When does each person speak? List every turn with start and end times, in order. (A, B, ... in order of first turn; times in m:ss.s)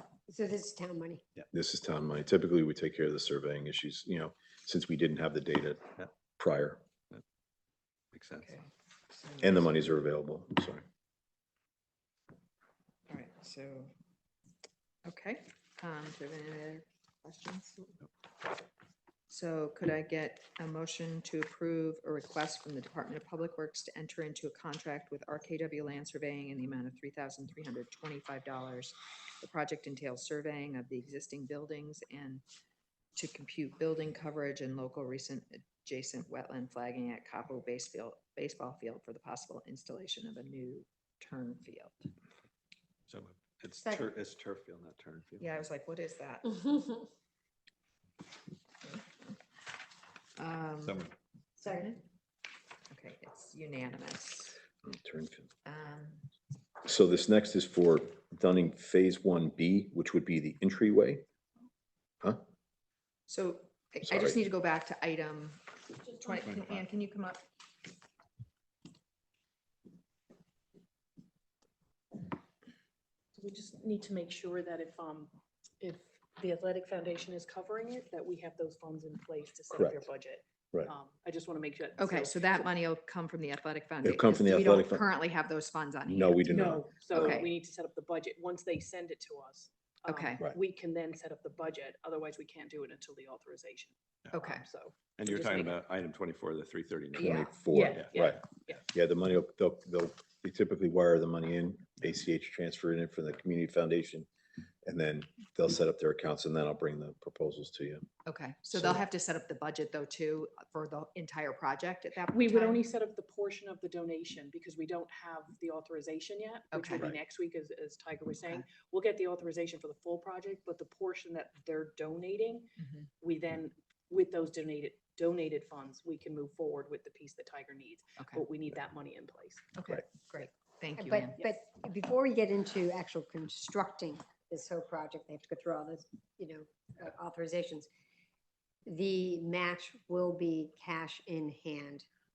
0:00.3-0:01.2 A
0:01.5-0:06.8 B
0:08.1-0:08.5 C
0:08.4-0:10.0 D
0:09.4-0:10.8 B
0:13.1-0:13.9 D
0:15.0-0:18.0 D
0:19.3-0:32.4 D
0:33.2-0:42.0 D
0:43.1-0:45.6 C
0:43.8-0:44.1 A
0:45.4-0:46.6 D
0:46.5-0:47.0 A
0:48.8-0:49.4 D
0:50.4-0:51.0 D
0:50.8-0:51.1 C
0:51.6-0:52.0 A
0:51.7-0:52.0 D
0:52.9-0:54.6 D
0:54.8-0:55.5 B
0:55.7-0:56.3 D
0:56.8-1:01.2 B
1:03.3-1:07.4 D
1:04.1-1:04.4 B
1:13.3-1:22.7 E
1:19.7-1:20.0 B
1:22.0-1:27.5 D
1:24.0-1:25.1 B
1:26.1-1:27.4 B
1:26.5-1:35.7 E
1:30.1-1:30.4 D
1:34.3-1:34.7 D
1:35.2-1:38.1 C
1:37.2-1:44.3 B
1:37.2-1:37.6 D
1:37.7-1:38.8 E
1:44.8-1:48.0 B
1:48.2-1:52.8 D
1:52.3-2:02.7 E
1:56.7-1:57.1 D
2:02.8-2:03.1 D
2:03.2-2:09.7 E
2:09.8-2:11.4 D
2:11.0-2:17.9 A
2:18.8-2:22.1 A